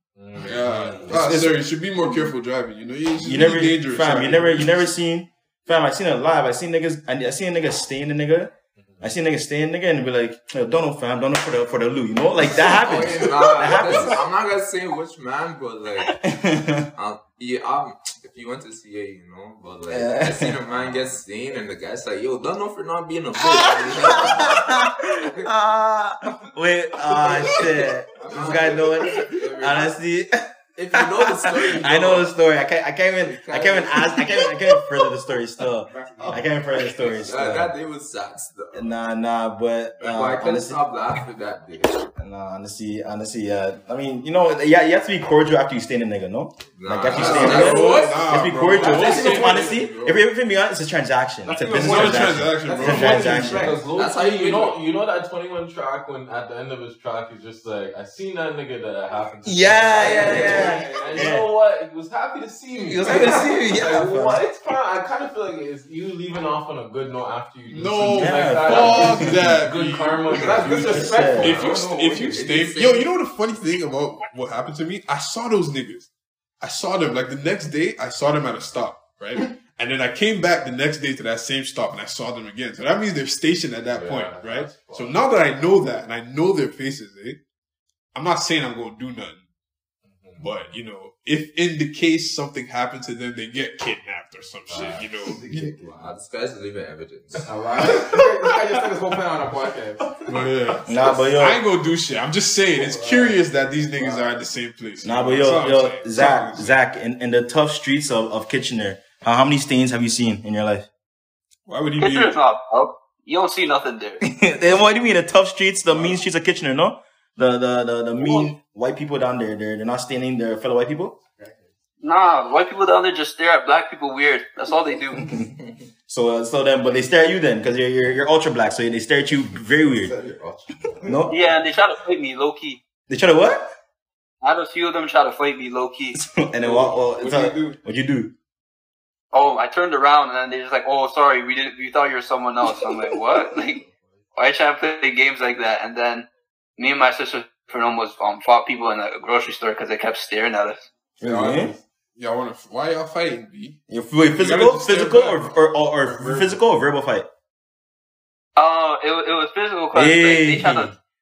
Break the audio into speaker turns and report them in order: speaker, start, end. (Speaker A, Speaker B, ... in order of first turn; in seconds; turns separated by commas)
Speaker A: 0.1-1.2, Speaker B: 0.4-4.9, Speaker C: 0.9-1.6, Speaker C: 3.2-14.3, Speaker A: 8.8-9.1, Speaker D: 12.4-14.2, Speaker E: 12.7-16.3, Speaker C: 16.0-16.9, Speaker E: 16.9-24.9, Speaker C: 19.9-20.6, Speaker C: 23.4-37.8, Speaker D: 25.2-25.5, Speaker D: 28.2-29.9, Speaker E: 28.2-29.9, Speaker E: 30.7-32.3, Speaker E: 33.2-34.2, Speaker D: 35.9-36.6, Speaker E: 36.8-38.9, Speaker C: 38.7-40.8, Speaker E: 40.0-42.0, Speaker C: 42.1-53.8, Speaker E: 46.7-48.2, Speaker B: 47.1-50.1, Speaker A: 47.2-47.6, Speaker D: 47.2-48.1, Speaker D: 48.7-49.8, Speaker E: 48.9-49.5, Speaker B: 51.5-53.7, Speaker D: 51.7-53.8, Speaker A: 53.1-71.2, Speaker E: 53.9-54.8, Speaker C: 59.4-61.5, Speaker D: 60.0-61.3, Speaker C: 62.7-64.4, Speaker D: 63.0-63.6, Speaker B: 67.7-87.4, Speaker C: 68.0-69.5, Speaker D: 70.3-72.5, Speaker C: 70.9-71.6, Speaker E: 72.3-73.1, Speaker A: 83.9-85.7, Speaker B: 88.1-89.5, Speaker A: 90.0-90.5, Speaker B: 90.4-95.5, Speaker A: 94.7-95.1, Speaker D: 94.7-96.1, Speaker E: 95.8-97.5, Speaker D: 97.4-100.5, Speaker B: 97.8-99.0, Speaker B: 100.2-106.8, Speaker C: 100.9-101.6, Speaker D: 102.7-103.4, Speaker D: 104.0-104.3, Speaker C: 105.0-110.9, Speaker B: 111.7-112.3, Speaker F: 112.0-114.2, Speaker C: 114.2-121.2, Speaker D: 121.3-121.7, Speaker F: 122.0-125.3, Speaker C: 125.1-125.5, Speaker C: 126.1-130.2, Speaker D: 129.8-131.3, Speaker C: 131.0-131.5, Speaker F: 131.3-132.8, Speaker C: 133.1-133.8, Speaker F: 134.4-136.2, Speaker C: 136.1-138.3, Speaker D: 136.6-137.8, Speaker F: 139.3-143.8, Speaker D: 143.6-144.0, Speaker F: 144.3-150.9, Speaker C: 151.2-151.7, Speaker D: 151.2-151.8, Speaker B: 152.2-153.8, Speaker C: 153.9-157.3, Speaker B: 154.3-156.6, Speaker F: 158.6-160.9, Speaker C: 159.9-160.9